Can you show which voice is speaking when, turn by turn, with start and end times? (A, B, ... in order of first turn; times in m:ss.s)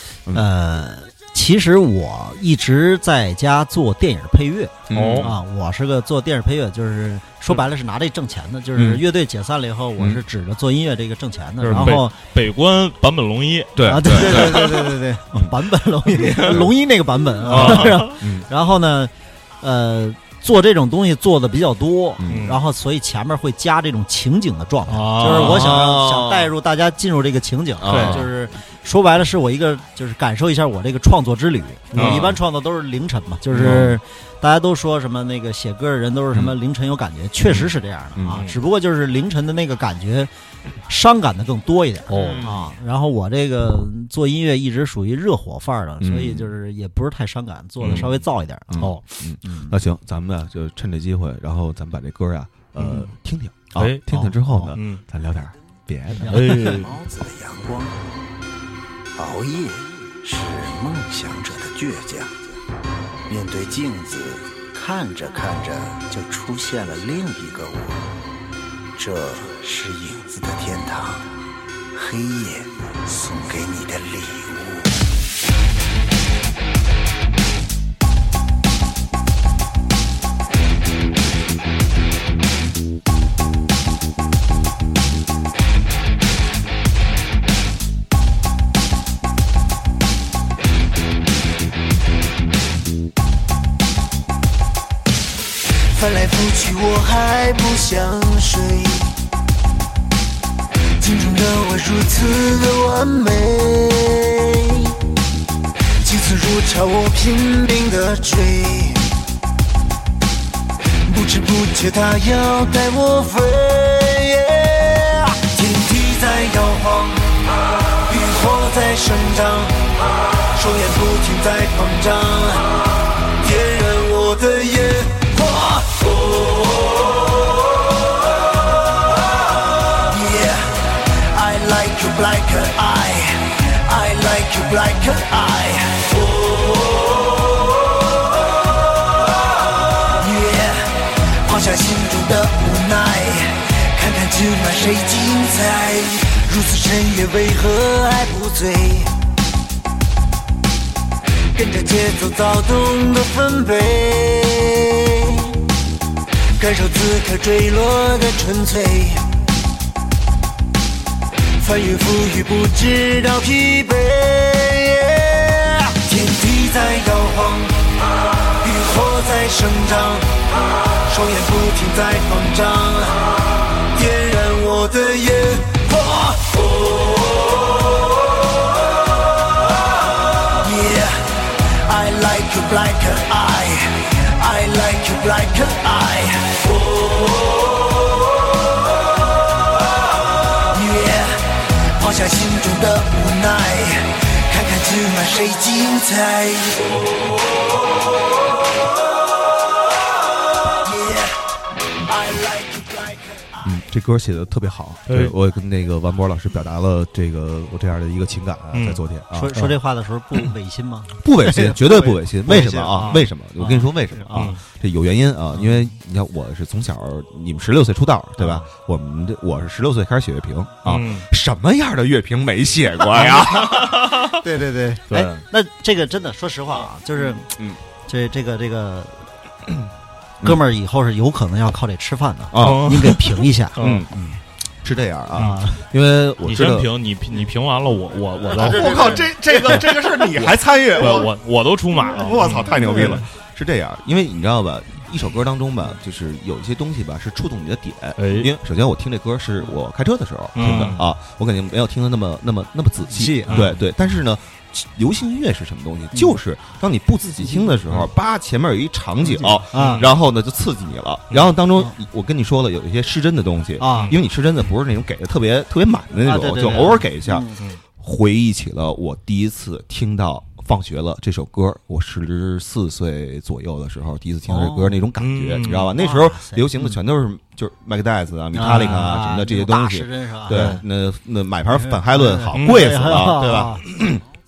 0:00.3-0:12.1 A
0:04.9-0:05.4 B
0:04.9-0:05.3 C
0:08.8-0:09.0 B
0:11.6-0:14.7 C
0:11.7-0:12.0 B
0:13.8-0:15.5 B
0:13.9-0:40.3 A
0:16.4-0:16.7 B
0:17.5-0:18.5 B
0:17.5-0:18.0 C
0:22.2-0:22.6 B
0:22.3-0:22.6 C
0:24.9-0:25.9 C
0:25.2-0:26.5 B
0:27.8-0:28.3 B
0:27.9-0:28.2 C
0:31.9-0:32.3 C
0:31.9-0:32.4 B
0:33.6-0:34.0 B
0:33.6-0:33.9 C
0:38.2-0:38.5 B
0:40.9-0:48.9 A
0:42.1-0:42.4 C
0:42.2-0:42.6 B
0:46.0-0:46.5 B
0:47.8-0:48.1 C
0:47.8-0:56.8 B
0:49.4-0:49.8 A
0:52.8-0:53.1 C
0:53.8-0:55.0 C
0:56.3-0:57.0 C
0:56.3-0:56.7 A
0:56.5-0:58.0 D
0:59.2-1:02.4 D
1:03.3-1:08.1 D
1:09.0-1:11.3 D
1:11.9-1:15.0 D
1:35.9-1:39.1 E
1:41.0-1:45.0 E
1:46.0-1:49.1 E
1:51.1-1:57.5 E
1:58.1-2:00.0 E
2:00.5-2:07.5 E
2:09.9-2:17.9 E
2:20.1-2:29.1 E
2:31.6-2:35.6 E
2:36.6-2:39.3 E
2:41.6-2:48.0 E
2:48.5-2:50.5 E
2:51.0-2:57.8 E
3:00.4-3:07.9 E
3:10.6-3:17.0 E
3:20.8-3:21.3 E
3:22.1-3:23.2 E
3:23.6-3:29.5 B
3:25.1-3:25.3 C
3:28.7-3:29.0 C
3:29.3-3:34.5 A
3:31.2-3:44.1 B
3:40.9-3:41.3 C
3:44.3-3:47.5 A
3:45.1-3:45.4 C
3:48.1-3:49.3 A
3:50.4-3:54.4 A
3:52.5-3:53.3 B
3:52.6-3:54.1 C
3:53.8-3:54.1 B
3:54.8-3:56.9 B
3:55.4-3:55.8 A
3:56.4-4:03.2 C
3:58.5-4:01.3 B
4:02.1-4:27.5 B
4:08.2-4:08.5 C
4:10.6-4:11.0 C
4:13.2-4:13.6 A
4:13.5-4:13.8 C
4:19.4-4:20.0 A
4:19.7-4:20.1 C
4:23.8-4:24.1 A
4:23.9-4:24.2 C
4:26.2-4:27.7 A
4:28.0-4:44.2 B
4:34.5-4:35.0 A
4:35.2-4:35.9 C
4:36.0-4:36.7 A
4:38.6-4:40.8 A
4:38.6-4:39.1 C
4:40.5-4:40.8 C
4:41.7-4:43.8 A
4:42.5-4:42.9 C